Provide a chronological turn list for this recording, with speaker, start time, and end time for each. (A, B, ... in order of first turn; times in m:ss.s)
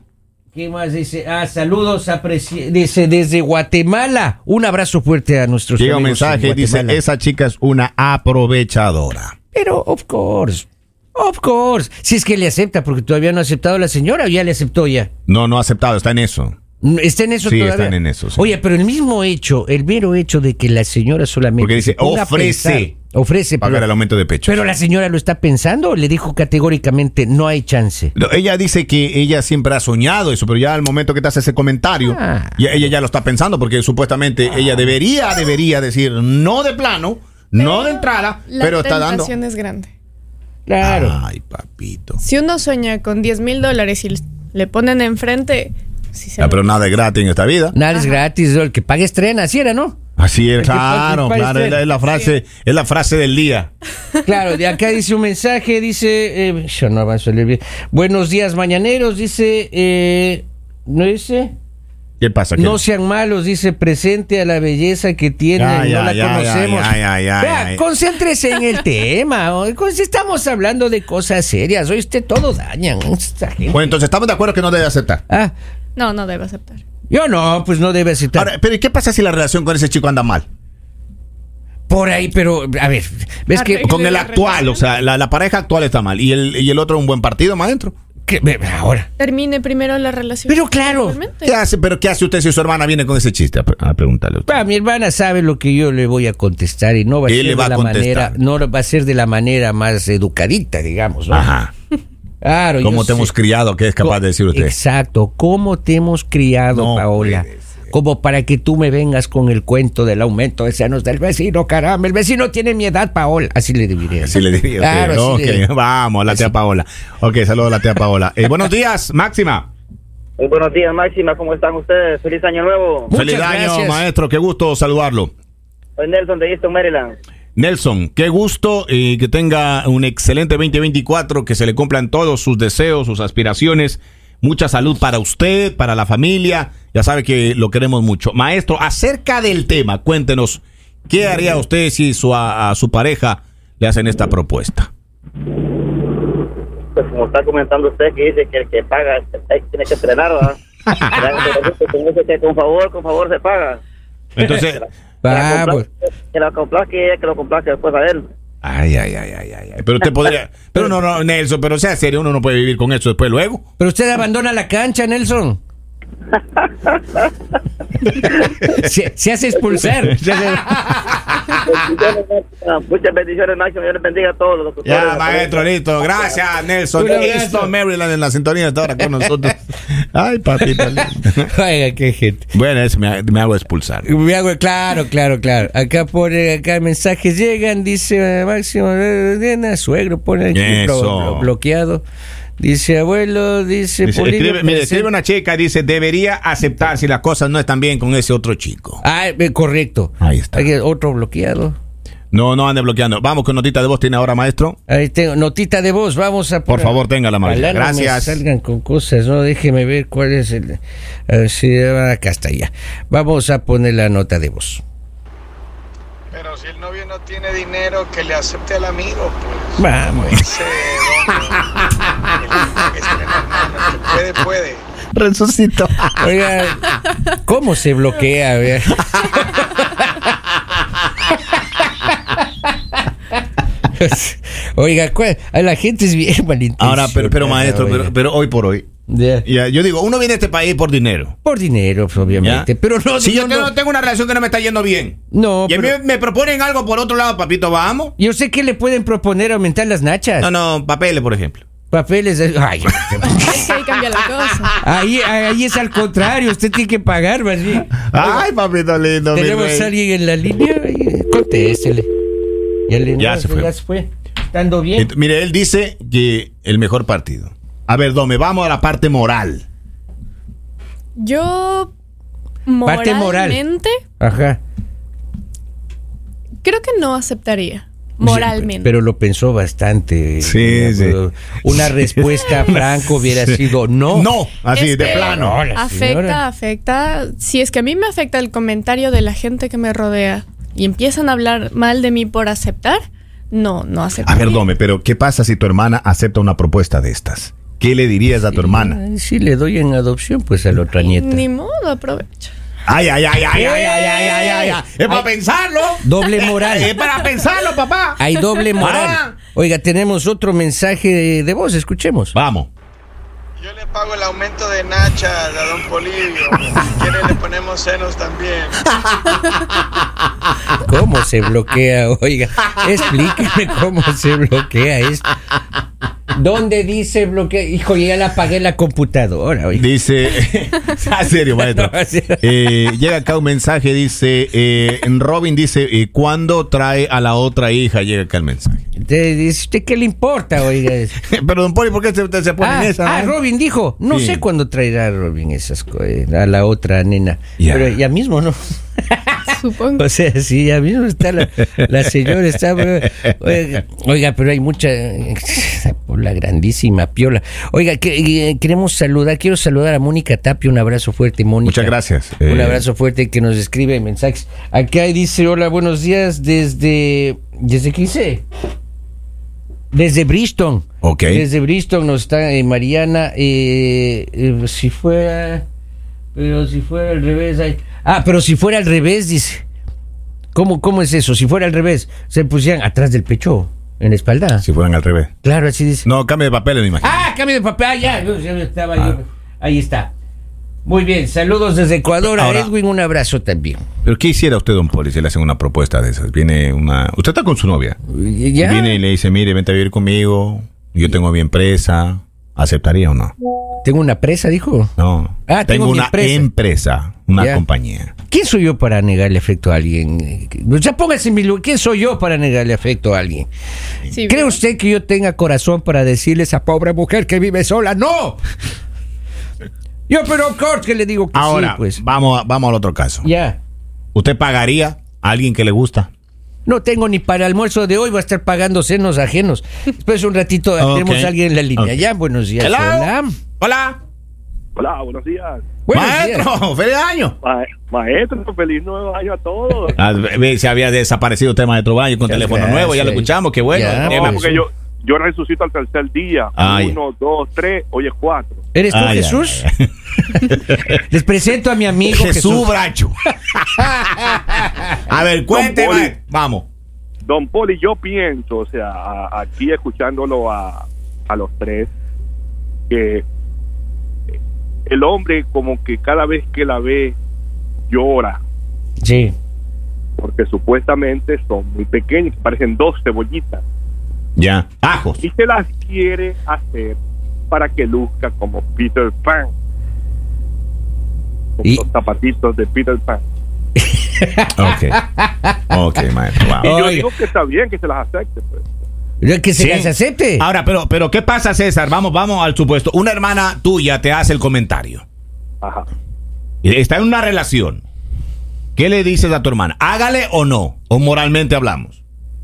0:00.5-0:07.0 A
0:05.8-0:09.4 B
0:09.5-0:15.1 A
0:15.3-0:16.6 B
0:16.8-0:23.8 A
0:17.4-0:18.5 B
0:21.6-0:22.9 B
0:23.6-0:24.7 B
0:24.4-0:28.1 A
0:28.2-0:39.3 B
0:32.0-0:32.9 A
0:37.6-0:39.9 C
0:40.7-0:41.2 A
0:40.8-0:42.2 B
0:42.2-0:46.9 C
0:46.4-0:47.8 B
0:47.7-0:50.0 A
0:47.9-0:48.2 C
0:50.2-0:53.7 B
0:50.6-0:51.9 A
0:54.2-1:01.5 A
1:02.2-1:02.8 B
1:02.6-1:14.0 A
1:05.6-1:07.8 B
1:13.7-1:15.2 B
1:16.0-1:16.8 C
1:17.1-1:18.5 A
1:18.3-1:20.5 B
1:21.9-1:23.9 A
1:23.5-1:24.7 C
1:23.8-1:27.9 B
1:28.3-1:29.1 A
1:29.2-1:31.5 C
1:30.5-1:31.2 A
1:31.4-1:34.5 B
1:34.5-1:41.5 A
1:37.3-1:38.4 B
1:41.3-1:41.7 B
1:42.4-1:43.3 A
1:42.8-1:44.8 B
1:44.0-1:55.6 A
1:46.7-1:47.9 B
1:54.2-1:59.7 B
1:56.3-1:56.5 A
2:00.4-2:03.1 D
2:03.1-2:04.0 A
2:03.1-2:05.3 B
2:06.0-2:07.2 D
2:07.6-2:24.9 B
2:26.9-2:30.6 D
2:30.9-2:31.2 B
2:31.1-2:33.8 D
2:34.4-2:34.8 B
2:34.6-2:38.3 D
2:35.2-2:35.9 A
2:38.6-2:43.6 B
2:43.8-2:45.6 A
2:46.4-2:47.3 D
2:48.6-2:51.0 A
2:50.1-2:51.5 B
2:51.6-2:56.4 D
2:54.8-3:01.5 B
2:57.0-2:57.7 A
3:00.6-3:02.5 A
3:02.5-3:04.1 B
3:04.0-3:12.0 A
3:10.5-3:11.5 B
3:12.6-3:15.1 A
3:14.0-3:19.0 B
3:19.0-3:21.8 A
3:20.2-3:20.7 B
3:22.3-3:24.8 B
3:24.9-3:34.8 A
3:26.7-3:28.4 B
3:36.3-3:41.6 E
3:39.8-3:40.5 A
3:42.4-3:44.8 E
3:45.1-3:46.3 B
3:46.2-3:50.2 A
3:51.5-3:52.4 A
3:53.9-3:58.1 A
3:56.8-3:58.9 B
3:59.1-3:59.5 A
3:59.4-4:01.4 B
4:01.4-4:03.7 A
4:02.4-4:08.2 B
4:05.3-4:05.9 A
4:08.2-4:10.5 A
4:10.4-4:11.6 B
4:11.9-4:13.4 A
4:13.4-4:14.7 C
4:13.6-4:14.2 F
4:14.8-4:18.4 A
4:18.1-4:19.9 B
4:19.3-4:22.1 A
4:22.9-4:25.1 A
4:23.2-4:23.7 B
4:25.0-4:29.7 B
4:31.2-4:31.9 C
4:32.7-4:34.0 C
4:32.8-4:33.6 A
4:34.2-4:34.6 A
4:36.6-4:38.9 C
4:38.2-4:38.7 B
4:38.8-4:44.3 A
4:40.4-4:43.6 B
4:44.1-4:45.6 B
4:44.7-4:54.6 C
4:45.0-4:46.4 A
4:54.2-4:59.0 B
4:58.5-5:01.4 A
5:01.0-5:02.5 C
5:02.9-5:08.2 B
5:03.5-5:05.3 A
5:06.0-5:07.0 A
5:08.2-5:12.3 A
5:08.8-5:09.4 B
5:12.3-5:12.7 B
5:13.6-5:18.8 E
5:20.8-5:25.3 A
5:26.3-5:29.8 A
5:29.7-5:38.8 B
5:31.5-5:32.8 A
5:39.0-5:41.1 A
5:41.2-5:43.4 B
5:42.6-6:08.4 A
5:44.1-5:44.4 B
5:47.6-5:48.0 B
5:49.5-5:50.0 C
6:01.6-6:02.8 B
6:09.9-6:15.6 A
6:11.0-6:11.4 B
6:16.3-6:19.6 A
6:20.5-6:24.6 A
6:24.6-6:25.3 B
6:25.4-6:26.1 A
6:26.0-6:27.2 B
6:27.0-6:30.1 A
6:30.8-6:33.8 A
6:32.2-6:32.7 B
6:34.0-6:38.0 B
6:38.1-6:39.0 A
6:38.6-6:43.3 B
6:43.8-6:44.9 A
6:45.0-6:48.1 B
6:45.5-6:46.5 A
6:47.4-6:47.6 A
6:48.3-6:53.5 A
6:54.1-6:54.6 C
6:54.3-6:58.4 A
7:00.1-7:02.0 A
7:01.3-7:03.3 B
7:03.2-7:03.6 A
7:04.2-7:06.1 B
7:06.7-7:13.3 A
7:10.8-7:12.0 B
7:12.6-7:14.0 B
7:14.8-7:15.6 F
7:15.9-7:16.5 A
7:15.9-7:17.4 B
7:17.4-7:20.0 F
7:20.0-7:24.6 B
7:22.3-7:24.6 A
7:24.0-7:28.6 F
7:26.6-7:27.0 B
7:28.7-7:29.6 A
7:28.9-7:31.0 B
7:30.9-7:32.7 A
7:32.1-7:36.7 B
7:34.5-7:35.0 A
7:35.5-7:36.2 F
7:37.2-7:41.9 F
7:42.9-7:43.2 F
7:44.9-7:47.2 F
7:47.9-7:48.4 F
7:49.0-7:49.3 A
7:50.2-7:53.6 F
7:54.4-7:55.2 B
7:55.2-7:57.0 F
7:57.5-7:59.5 F
8:01.6-8:03.2 F
8:03.8-8:05.6 A
8:04.6-8:05.0 B
8:05.7-8:06.8 B
8:06.6-8:07.1 A
8:06.6-8:08.6 F
8:09.2-8:10.4 A
8:09.6-8:15.0 B
8:15.6-8:15.9 F
8:16.6-8:17.8 B
8:18.8-8:22.0 B